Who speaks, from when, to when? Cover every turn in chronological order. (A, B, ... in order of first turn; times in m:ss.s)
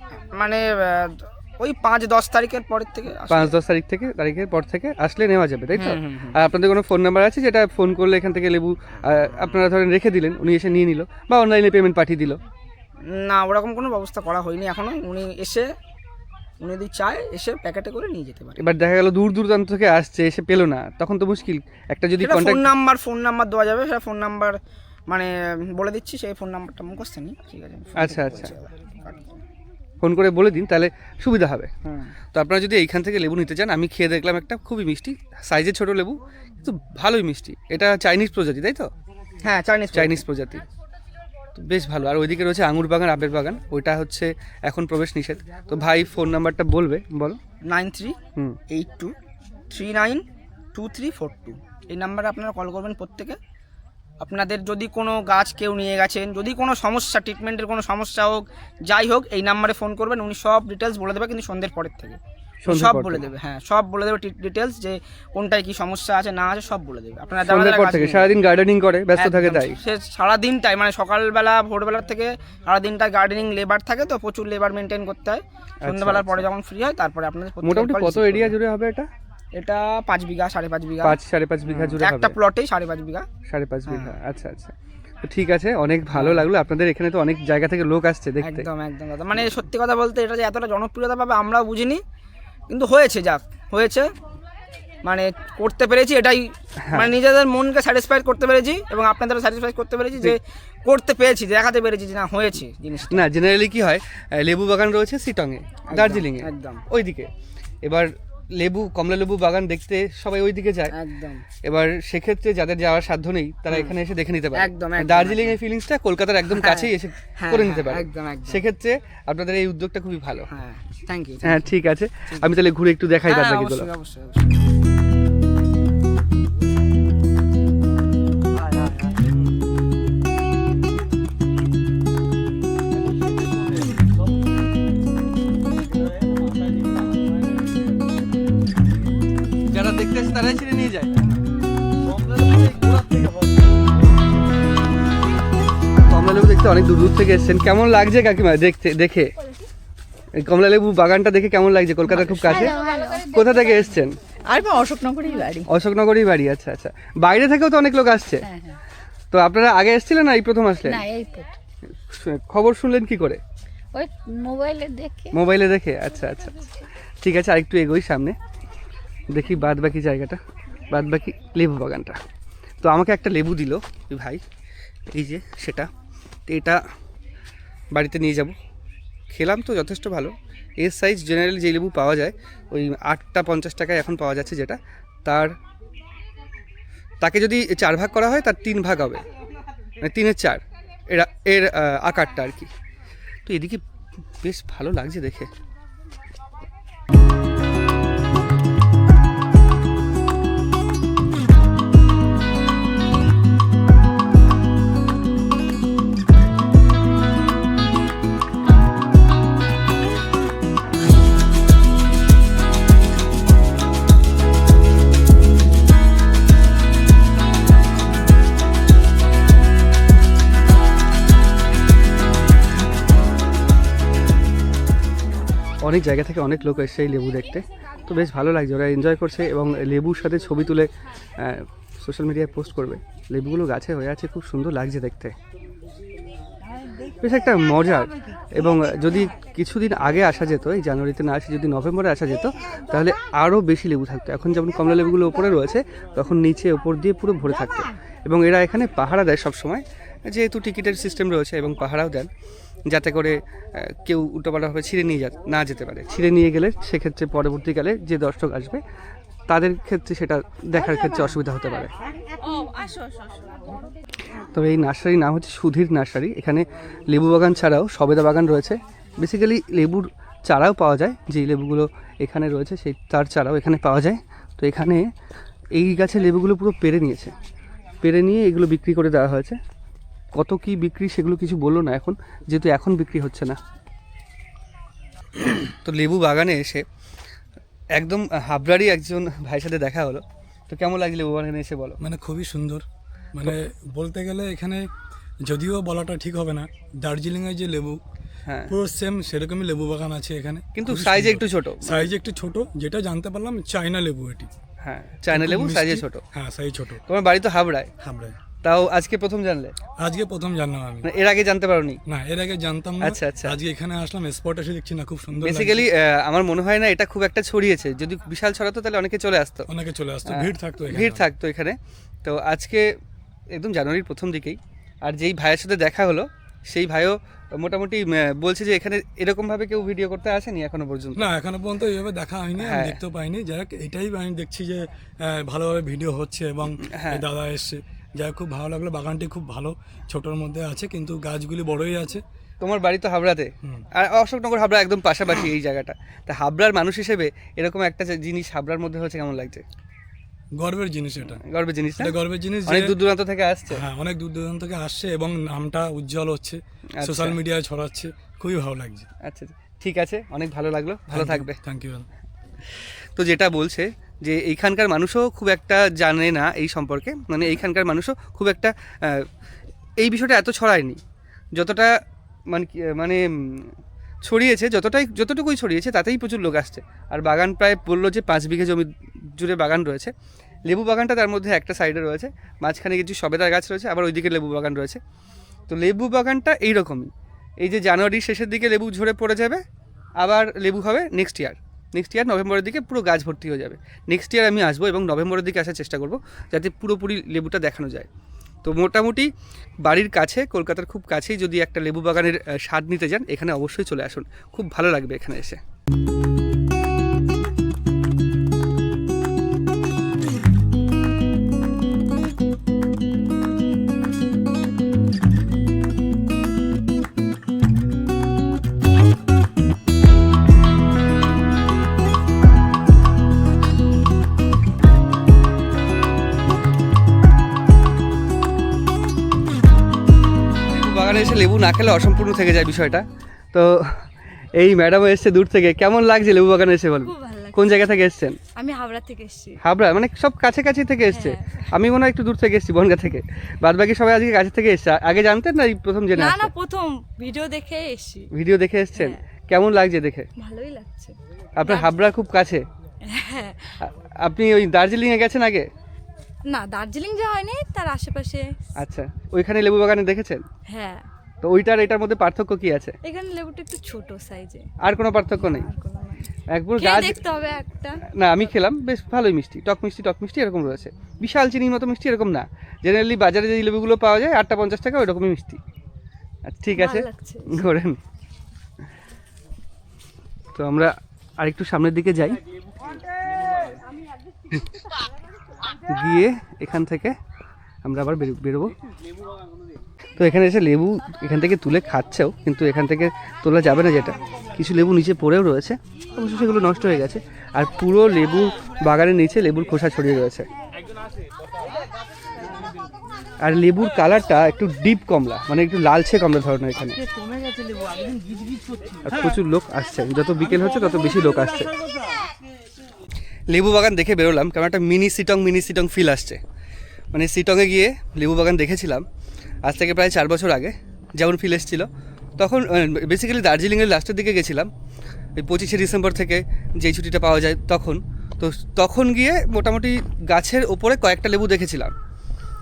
0:00.3-0:03.5 A
0:03.3-0:12.4 B
0:05.8-0:06.4 A
0:13.1-0:15.7 A
0:16.6-0:18.6 A
0:18.6-0:22.7 B
0:22.2-0:24.6 A
0:25.1-0:29.4 A
0:28.0-0:28.5 B
0:30.0-0:31.7 B
0:31.9-0:32.1 A
0:32.3-0:38.9 B
0:39.4-0:40.2 A
0:39.9-0:40.6 B
0:41.6-0:47.4 B
0:47.7-0:48.2 A
0:48.7-0:49.1 A
0:49.7-0:53.4 A
0:54.2-1:08.4 A
1:02.6-1:03.2 B
1:07.4-1:09.8 B
1:09.2-1:18.6 A
1:15.8-1:16.5 B
1:17.6-1:19.1 B
1:19.6-1:23.3 A
1:21.0-1:22.4 B
1:23.5-1:28.7 B
1:23.9-1:24.1 A
1:26.1-1:26.4 A
1:28.4-1:32.0 A
1:32.7-1:34.1 A
1:35.0-1:43.3 A
1:36.8-1:37.1 B
1:43.1-1:47.3 B
1:45.9-1:46.8 A
1:47.8-1:50.9 B
1:50.9-1:51.4 A
1:51.6-2:00.5 B
1:53.7-1:54.0 A
1:54.6-1:55.6 A
1:56.5-1:58.6 A
2:00.5-2:01.6 A
2:01.4-2:03.9 B
2:03.3-2:04.6 A
2:19.7-2:21.1 B
2:26.0-2:29.3 B
2:30.3-2:34.2 B
2:32.1-2:35.7 C
2:35.7-2:38.5 B
2:38.5-2:38.7 C
2:39.3-2:41.0 B
2:40.9-2:41.5 C
2:42.0-2:43.4 B
2:43.9-2:45.4 C
2:45.3-2:46.7 B
2:47.2-2:48.4 B
2:49.3-2:50.4 B
2:50.9-2:52.2 B
2:52.8-2:54.4 B
2:55.1-2:55.9 B
2:56.5-2:56.8 B
2:57.9-2:58.6 B
2:59.3-3:05.5 B
3:07.2-3:09.3 B
3:10.0-3:12.7 B
3:13.5-3:13.8 B
3:14.4-3:15.5 B
3:45.8-3:55.4 B
3:57.2-4:12.3 B
4:12.9-4:18.8 B
4:19.5-4:21.9 B
4:24.5-4:35.1 B
4:35.7-4:37.3 B
4:38.0-4:39.6 B
4:40.3-4:43.6 B
4:45.7-4:46.8 B
4:47.9-4:52.0 B
4:52.0-4:54.9 D
4:55.4-4:58.0 D
4:58.5-4:58.7 B
4:58.7-5:04.5 D
5:00.8-5:02.1 B
5:04.8-5:06.2 B
5:05.3-5:07.0 D
5:07.1-5:07.9 B
5:08.0-5:08.4 D
5:08.6-5:09.8 B
5:10.0-5:11.1 D
5:11.0-5:12.0 B
5:12.1-5:15.9 D
5:13.0-5:13.6 B
5:15.4-5:19.7 B
5:19.7-5:21.2 D
5:20.3-5:22.9 B
5:23.5-5:31.3 B
5:31.2-5:42.2 D
5:32.6-5:33.0 B
5:36.9-5:37.2 B
5:42.6-5:49.6 B
5:50.6-5:51.4 D
5:51.4-5:53.8 B
5:52.0-5:53.0 D
5:53.7-5:59.1 D
5:57.0-5:57.4 B
5:59.3-6:01.6 B
6:01.1-6:02.1 D
6:02.8-6:09.3 B
6:10.0-6:11.0 B
6:11.6-6:11.9 B
6:12.5-6:20.1 B
6:20.7-6:25.0 B
6:25.7-6:29.6 B
6:30.2-6:38.1 B
6:38.6-6:39.3 B
6:39.8-6:45.6 B
7:10.7-7:18.4 B
7:17.1-7:17.6 E
7:18.6-7:19.6 E
7:19.6-7:26.5 B
7:21.1-7:21.4 E
7:26.2-7:28.3 E
7:28.3-7:30.3 B
7:30.4-7:31.1 E
7:31.6-7:32.7 B
7:33.2-7:33.7 E
7:33.8-7:35.7 B
7:36.5-7:38.5 E
7:38.8-7:40.4 B
7:40.7-7:41.0 E
7:41.4-7:43.0 B
7:43.1-7:44.7 E
7:44.8-7:45.7 B
7:45.6-7:46.2 E
7:46.5-7:47.2 B
7:46.8-7:48.0 E
7:48.1-7:55.6 B
7:56.5-7:58.0 B
7:56.8-7:57.6 E
8:00.5-8:02.4 B
8:05.9-8:07.2 B
8:07.8-8:08.8 B
8:10.2-8:20.5 B
8:23.4-8:27.0 B
8:29.0-8:31.8 B
8:33.5-8:36.4 B
8:37.1-8:39.0 B
8:39.6-8:44.7 B
8:45.4-8:51.9 B